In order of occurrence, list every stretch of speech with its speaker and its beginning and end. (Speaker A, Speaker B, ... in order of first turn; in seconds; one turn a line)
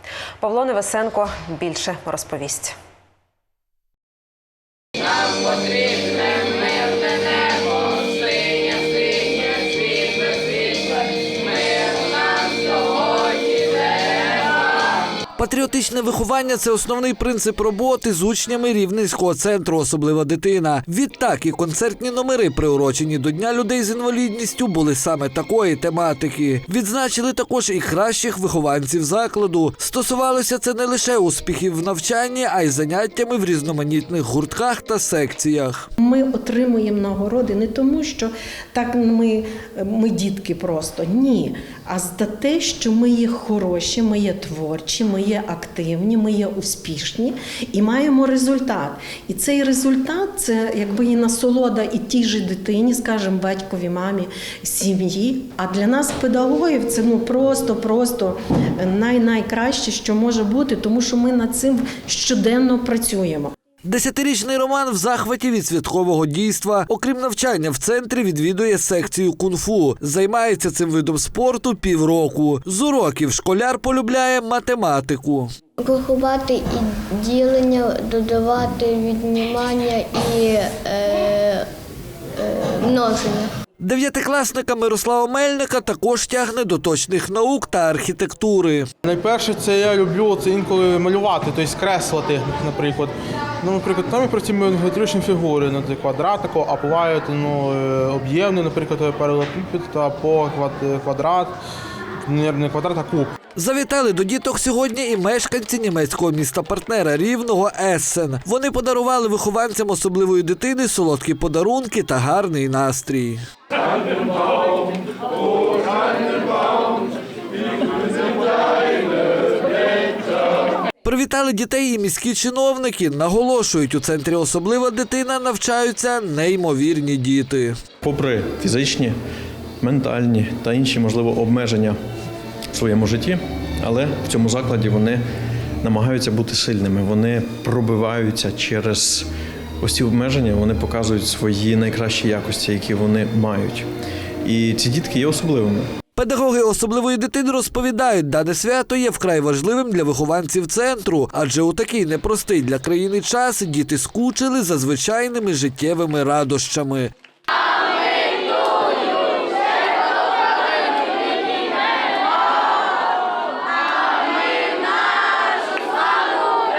Speaker A: 0.4-2.8
Speaker B: 15.4-35.9
Speaker C: 36.0-63.5
Speaker B: 63.8-75.5
Speaker D: 75.8-81.7
Speaker D: 82.4-83.5
Speaker B: 83.8-88.9
Speaker E: 89.0-101.6
Speaker E: 102.2-103.3
Speaker B: 103.5-113.4
Speaker B: 121.0-127.7
Speaker F: 128.0-129.2
Speaker F: 129.8-132.0
Speaker F: 132.7-135.2
Speaker F: 135.8-139.3
Speaker F: 139.8-143.9
Speaker F: 144.4-145.9
Speaker B: 146.2-157.1